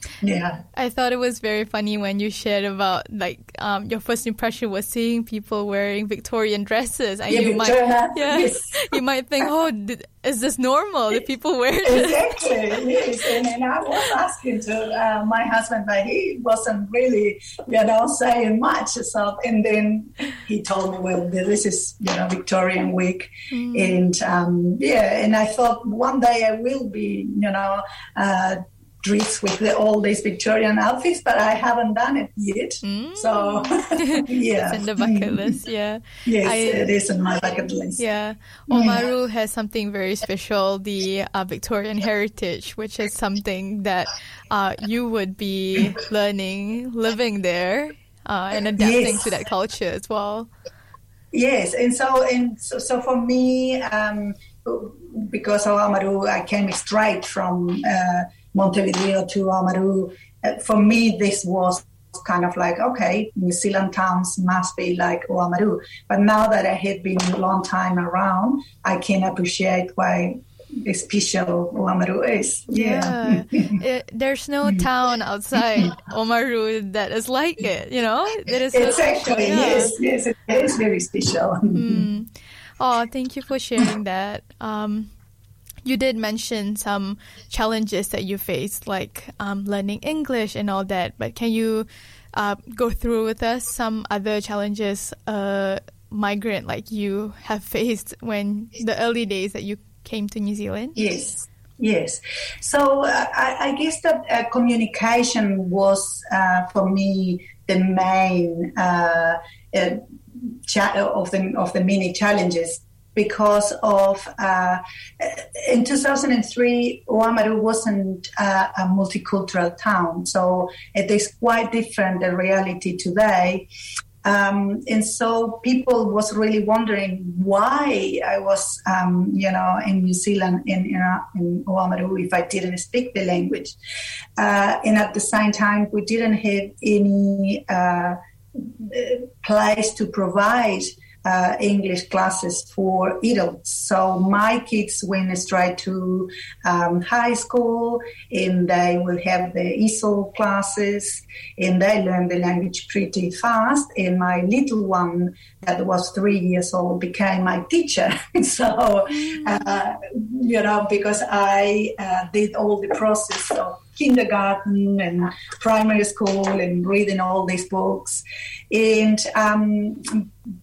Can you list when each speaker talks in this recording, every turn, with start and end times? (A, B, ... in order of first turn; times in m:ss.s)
0:00.2-0:00.6 A
0:00.7-0:12.3 B
0:07.3-0:08.9 A
0:11.8-0:35.6 A
0:23.5-0:24.0 B
0:32.8-0:37.0 B
0:36.2-0:38.0 A
0:38.0-0:50.5 B
0:38.7-0:39.0 A
0:48.8-0:49.2 A
0:51.3-1:13.8 A
1:12.7-1:19.9 B
1:18.7-1:22.1 A
1:21.7-1:25.1 B
1:25.8-1:41.0 B
1:41.0-2:03.7 A
2:04.2-2:13.8 A
2:14.4-2:50.3 A
2:39.1-2:39.5 B